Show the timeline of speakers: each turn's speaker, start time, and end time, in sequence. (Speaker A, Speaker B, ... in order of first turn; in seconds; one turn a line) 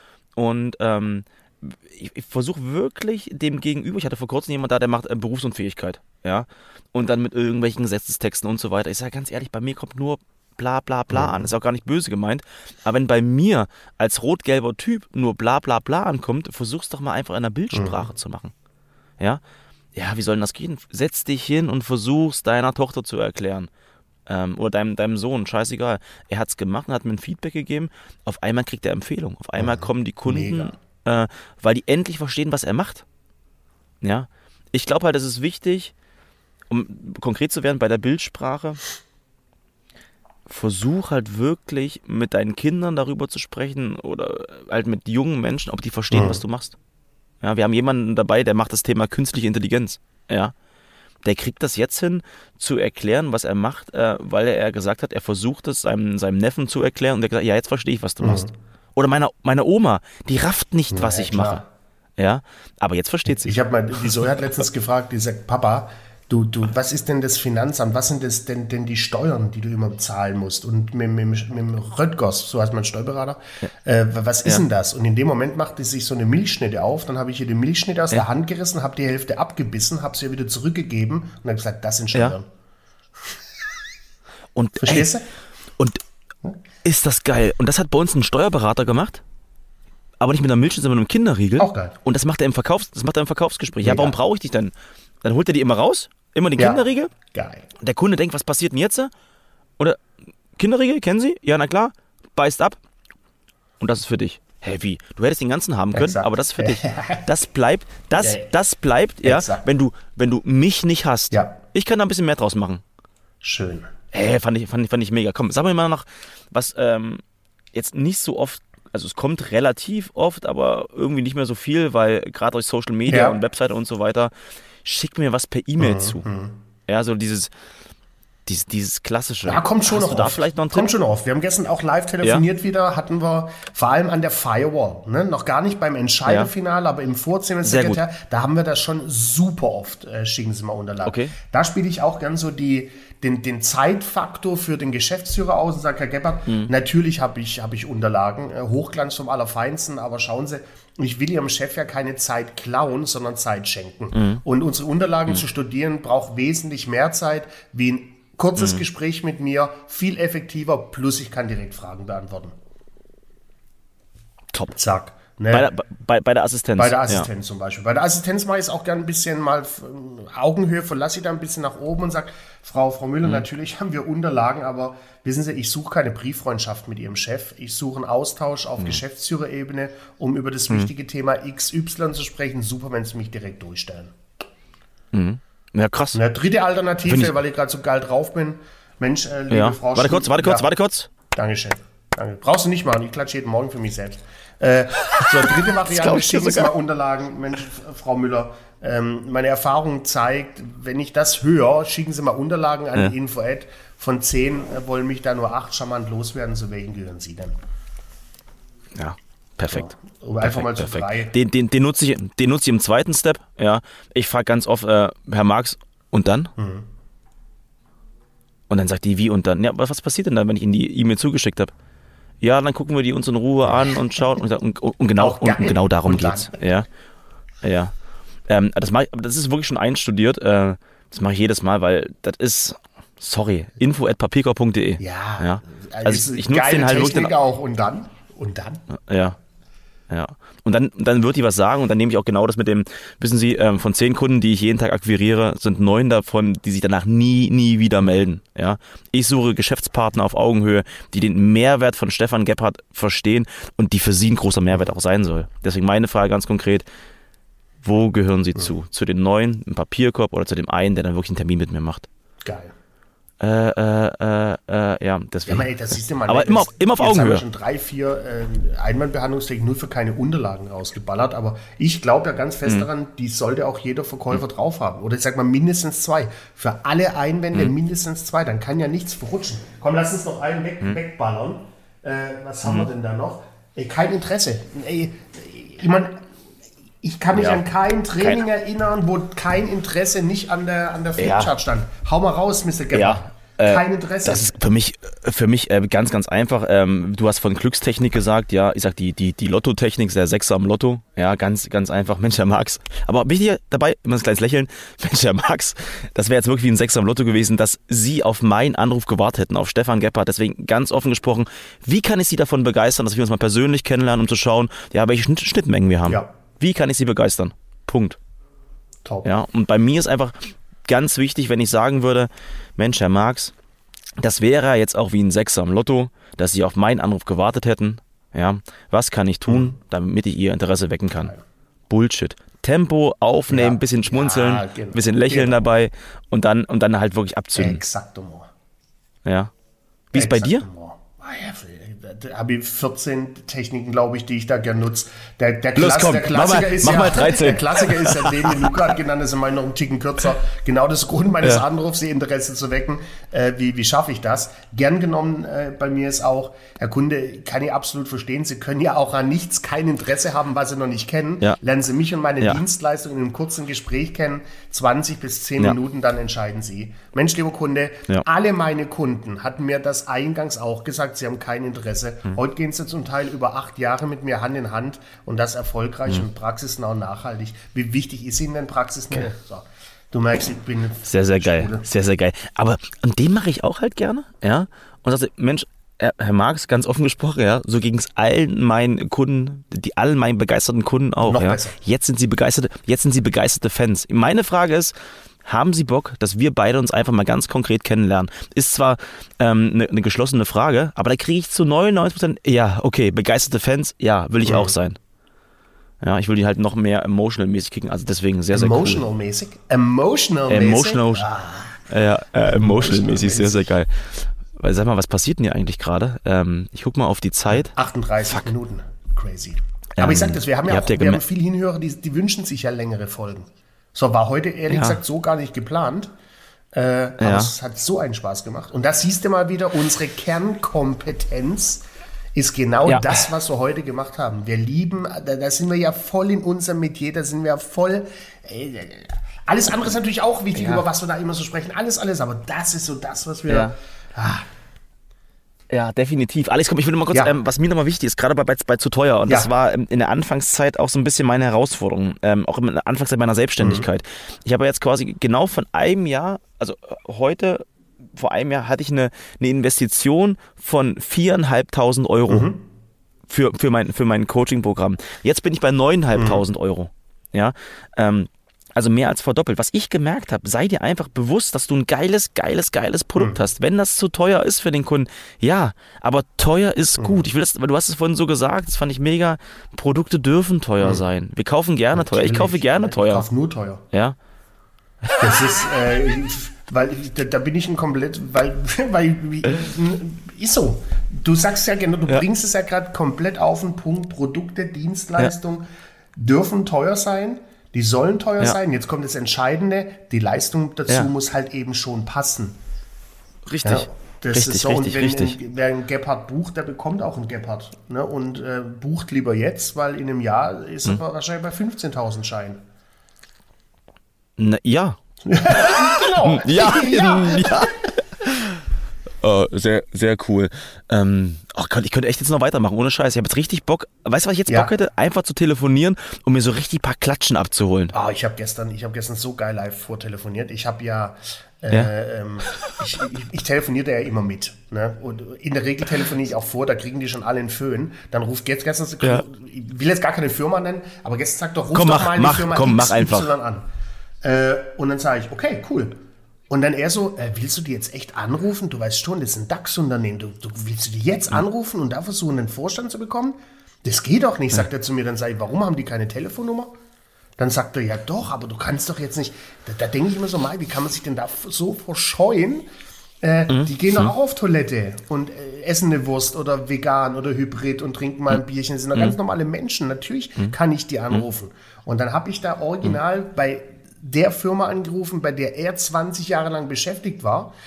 Speaker A: 0.3-18.5
Speaker B: 11.1-11.5
Speaker B: 17.7-18.1
Speaker A: 19.9-23.7
Speaker A: 24.3-33.0
Speaker B: 29.6-30.8
Speaker A: 34.0-35.9
Speaker A: 36.7-38.8
Speaker A: 40.5-46.8
Speaker B: 46.1-46.4
Speaker A: 47.4-50.5
Speaker A: 51.2-61.6
Speaker B: 58.2-58.5
Speaker B: 60.9-61.7
Speaker A: 62.2-63.6
Speaker B: 63.3-82.5
Speaker A: 84.5-85.1
Speaker B: 84.8-85.3
Speaker A: 86.8-89.2
Speaker A: 90.2-97.1
Speaker B: 91.6-92.0
Speaker B: 93.8-94.2
Speaker B: 96.6-97.7
Speaker A: 97.8-99.1
Speaker A: 100.5-102.8
Speaker A: 103.8-112.8
Speaker B: 105.9-107.3
Speaker B: 108.2-108.5
Speaker B: 109.2-109.7
Speaker B: 111.3-111.6
Speaker B: 113.4-113.9
Speaker A: 114.1-117.2
Speaker A: 117.7-124.3
Speaker B: 123.1-123.4
Speaker A: 124.8-126.2
Speaker B: 125.8-126.6
Speaker A: 126.9-127.5
Speaker A: 128.4-130.9
Speaker B: 129.4-162.5
Speaker A: 136.2-136.5
Speaker A: 137.6-138.0
Speaker A: 141.0-141.3
Speaker A: 154.1-154.4
Speaker A: 158.6-158.8
Speaker B: 164.7-165.7
Speaker A: 165.5-167.3
Speaker B: 166.8-184.1
Speaker A: 185.1-186.2
Speaker B: 186.1-190.7
Speaker A: 187.0-187.3
Speaker A: 189.5-191.1
Speaker B: 191.3-207.5
Speaker A: 195.2-196.7
Speaker A: 208.9-216.5
Speaker B: 209.7-211.3
Speaker B: 216.6-216.8
Speaker A: 218.7-221.7
Speaker A: 222.4-226.8
Speaker B: 223.6-223.9
Speaker B: 225.2-226.6
Speaker A: 227.6-227.9
Speaker A: 228.5-237.3
Speaker B: 235.0-238.8
Speaker A: 238.9-239.4
Speaker A: 240.1-256.8
Speaker A: 257.8-262.1
Speaker B: 262.4-262.7
Speaker A: 263.4-265.7
Speaker B: 265.5-286.2
Speaker A: 266.3-267.4
Speaker B: 287.0-294.6
Speaker A: 287.3-287.6
Speaker A: 288.2-288.4
Speaker A: 291.2-291.5
Speaker A: 292.9-318.2
Speaker B: 316.1-316.3
Speaker B: 319.0-319.3
Speaker A: 319.2-323.5
Speaker A: 324.2-331.3
Speaker B: 329.4-329.7
Speaker A: 331.9-337.8
Speaker B: 333.5-335.6
Speaker B: 337.6-338.5
Speaker A: 339.2-339.5
Speaker A: 340.1-340.6
Speaker B: 340.1-381.9
Speaker A: 345.7-348.7
Speaker A: 381.1-405.0
Speaker B: 391.2-391.8
Speaker B: 404.4-404.7
Speaker A: 406.0-409.0
Speaker B: 408.5-411.9
Speaker A: 410.5-411.3
Speaker A: 411.9-417.7
Speaker B: 412.4-413.7
Speaker B: 417.5-426.1
Speaker A: 420.0-421.2
Speaker A: 424.7-425.0
Speaker B: 426.7-431.8
Speaker A: 427.2-427.5
Speaker B: 432.3-444.4
Speaker A: 432.9-433.2
Speaker A: 440.5-440.8
Speaker A: 443.5-443.8
Speaker A: 445.7-462.5
Speaker B: 447.1-447.4
Speaker B: 453.6-453.9
Speaker B: 462.3-462.6
Speaker A: 463.3-483.2
Speaker B: 466.1-466.4
Speaker B: 473.2-473.4
Speaker B: 477.0-477.2
Speaker B: 481.9-483.8
Speaker B: 485.2-495.6
Speaker B: 496.1-502.6
Speaker A: 503.4-505.4
Speaker B: 503.6-512.6
Speaker A: 514.4-518.6
Speaker B: 515.2-517.9
Speaker A: 519.2-527.9
Speaker B: 524.5-524.7
Speaker B: 527.9-543.6
Speaker A: 541.7-543.3
Speaker B: 544.2-545.9
Speaker B: 546.5-556.7
Speaker B: 557.4-562.6
Speaker B: 563.2-577.5
Speaker A: 563.5-564.1